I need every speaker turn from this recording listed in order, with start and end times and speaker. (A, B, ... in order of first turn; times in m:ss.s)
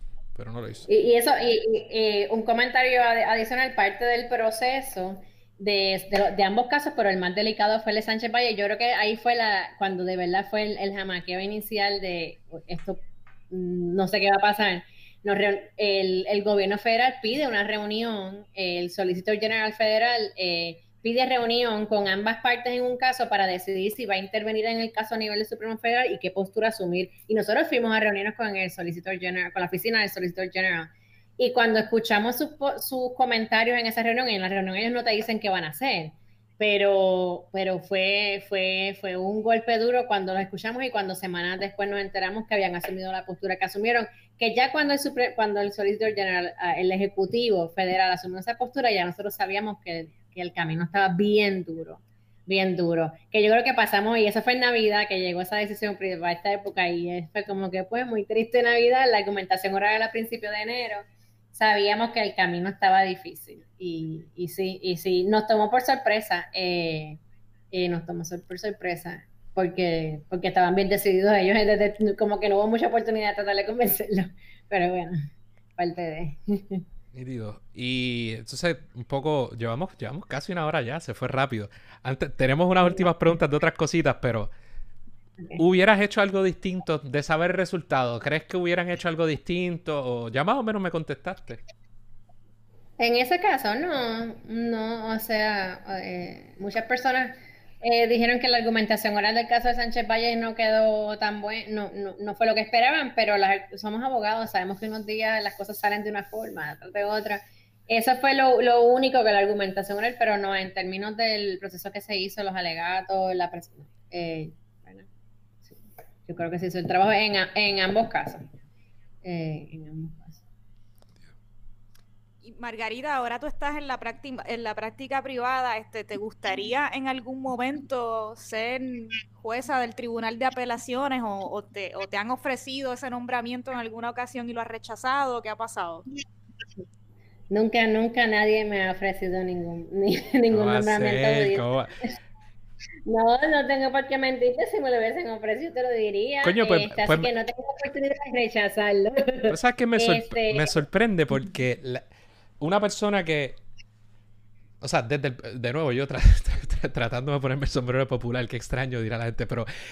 0:00.4-0:00.9 A
0:00.9-1:07.2 B
1:07.7-1:15.2 B
1:15.8-1:16.8 B
1:17.1-1:24.5 A
1:25.6-1:31.6 A
1:33.0-1:55.1 B
1:55.6-1:58.4 B
1:59.2-2:00.4 B
2:02.4-2:16.0 C
2:17.5-2:21.6 B
2:20.5-2:21.9 A
2:23.1-2:30.8 B
2:26.4-2:27.3 A
2:29.5-2:32.0 A
2:32.6-2:33.6 A
2:34.8-2:39.7 A